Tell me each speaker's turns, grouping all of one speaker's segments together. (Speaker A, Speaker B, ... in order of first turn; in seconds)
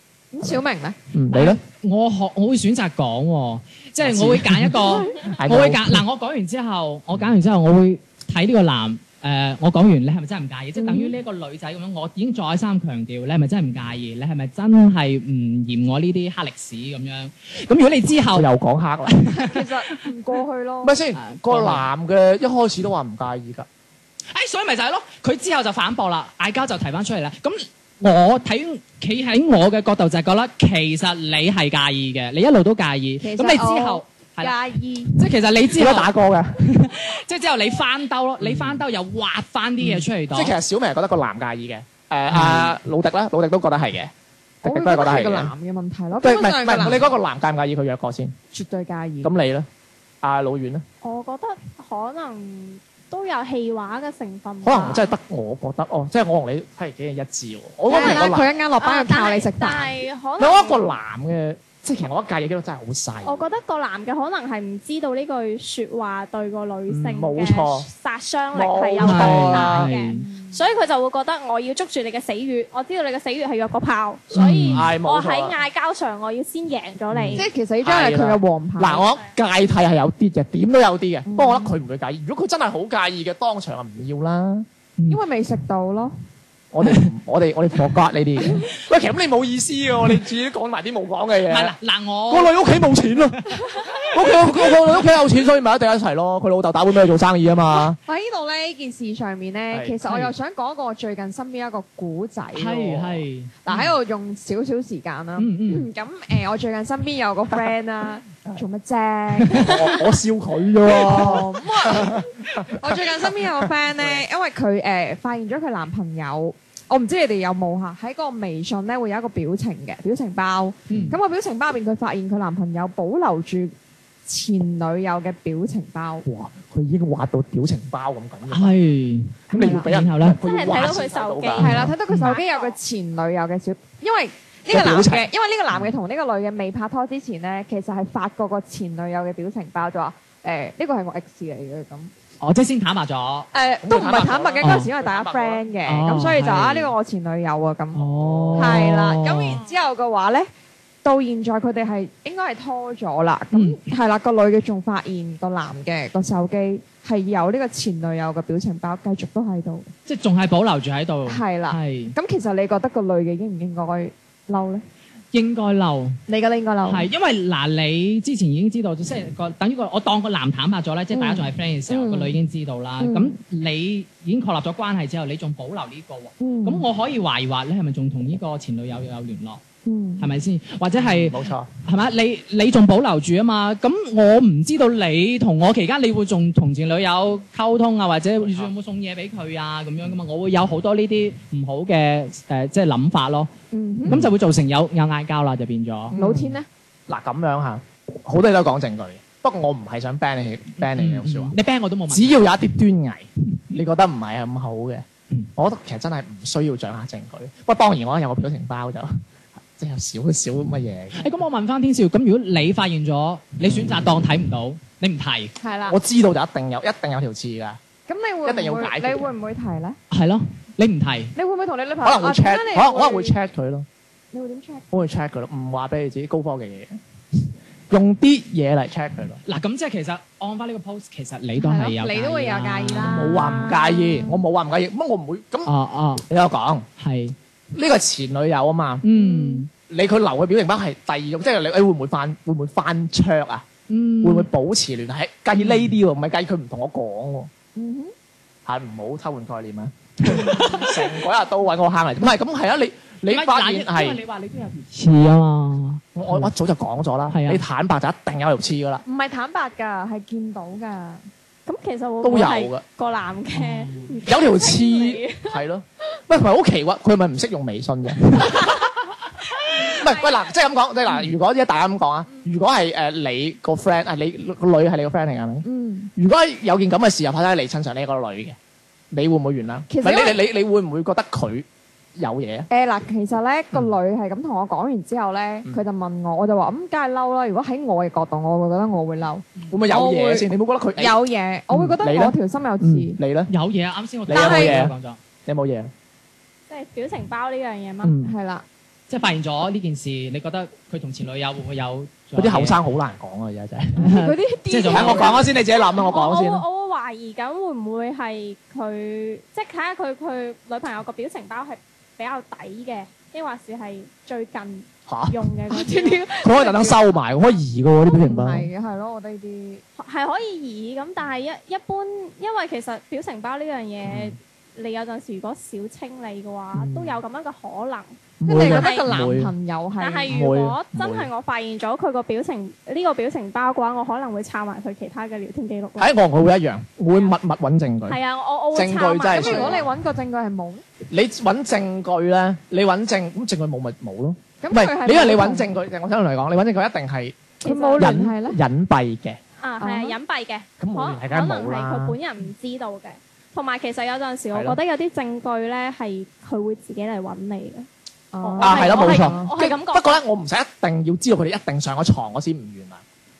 Speaker A: 0.3-1.6, 10.8-11.1, 19.3-20.9, 33.2-35.1, 44.6-47.0, 48.5-49.3, 57.9-59.9, 70.2-70.5, 77.3-79.0, 81.3-81.7, 85.1-86.1, 93.7-94.0, 97.8-110.1, 110.9-123.7, 124.2-126.2, 129.6-129.9, 131.6-142.1, 143.5-148.0, 148.6-150.5, 151.0-159.9, 161.2-164.8, 166.3-167.1, 171.1-172.3, 173.0-173.3, 176.4-176.8, 179.8-180.3, 193.7-194.2, 196.1-196.7, 215.6-216.0, 218.1-220.0, 221.3-223.3, 224.3-224.9, 231.6-234.4, 239.1-239.6, 247.7-248.1, 259.1-261.2, 275.6-276.1, 279.9-280.4, 282.7-293.2, 294.3-294.8, 298.2-298.6, 304.0-305.5, 315.7-317.0, 318.1-319.8, 328.4-330.3, 339.3-340.8, 344.6-345.7, 347.6-348.6, 349.8-350.2, 358.3-359.5
Speaker B: 1.1-1.6, 4.0-6.0, 18.3-19.1, 20.8-23.7, 35.7-36.6, 38.4-38.8, 39.8-44.1, 44.6-45.5, 46.2-48.3, 49.2-49.7, 50.2-50.8, 54.6-58.5, 60.4-63.5, 66.9-67.9, 68.5-69.9, 74.3-75.6, 77.1-84.7, 86.7-91.7, 92.3-93.4, 94.1-98.0, 99.7-100.0, 103.7-103.9, 109.5-114.2, 120.9-121.2, 126.2-128.7, 129.5-131.9, 134.7-135.3, 143.8-145.7, 148.2-148.9, 181.0-181.7, 188.4-188.7, 196.1-196.6, 197.1-201.5, 202.1-205.0, 205.6-209.2, 209.8-211.3, 213.6-214.0, 215.8-217.8, 218.4-219.3, 222.0-223.9, 224.9-227.4, 227.9-229.4, 233.0-235.7, 236.2-236.9, 237.7-239.0, 239.9-243.7, 244.2-247.5, 248.7-254.2, 256.1-259.0, 262.2-262.8, 264.2-269.0, 269.7-278.6, 279.1-282.7, 289.7-291.2, 291.7-293.5, 294.3-294.9, 295.4-295.9, 298.0-298.3, 302.4-304.1, 304.9-306.6, 315.1-315.4, 316.4-318.7, 324.1-324.4, 326.7-327.2, 328.4-329.5, 330.3-331.3, 336.0-338.2, 338.7-339.9, 341.1-349.4, 350.8-352.2, 354.5-354.8, 358.6-363.0
Speaker C: 1.8-18.5, 19.1-20.1, 21.1-21.8, 24.3-34.5, 35.1-40.5, 42.3-42.7, 69.0-70.3, 74.3-74.9, 91.5-92.5, 100.0-100.3, 102.5-103.6, 105.4-105.9, 109.4-109.7, 120.9-121.2, 128.5-130.4, 131.7-132.3, 142.4-143.5, 144.6-144.9, 145.8-146.9, 147.9-149.6, 153.5-153.8, 160.1-162.1, 165.3-166.2, 166.8-179.6, 180.2-193.5, 194.1-196.2, 200.9-202.4, 211.2-215.5, 220.1-221.3, 229.4-233.6, 235.7-236.2, 237.0-237.3, 239.0-239.7, 243.9-244.5, 245.5-245.9, 250.2-250.9, 253.3-256.5, 257.3-257.6, 263.5-264.1, 293.5-295.2, 299.1-302.8, 304.0-305.4
Speaker D: 51.0-55.1, 57.9-60.9, 63.2-77.5, 130.4-132.8, 261.6-265.6, 269.5-270.3, 296.7-298.2, 305.8-316.8, 320.0-329.1, 330.0-336.1, 338.1-339.8, 347.6-348.1, 349.6-357.9, 358.4-360.2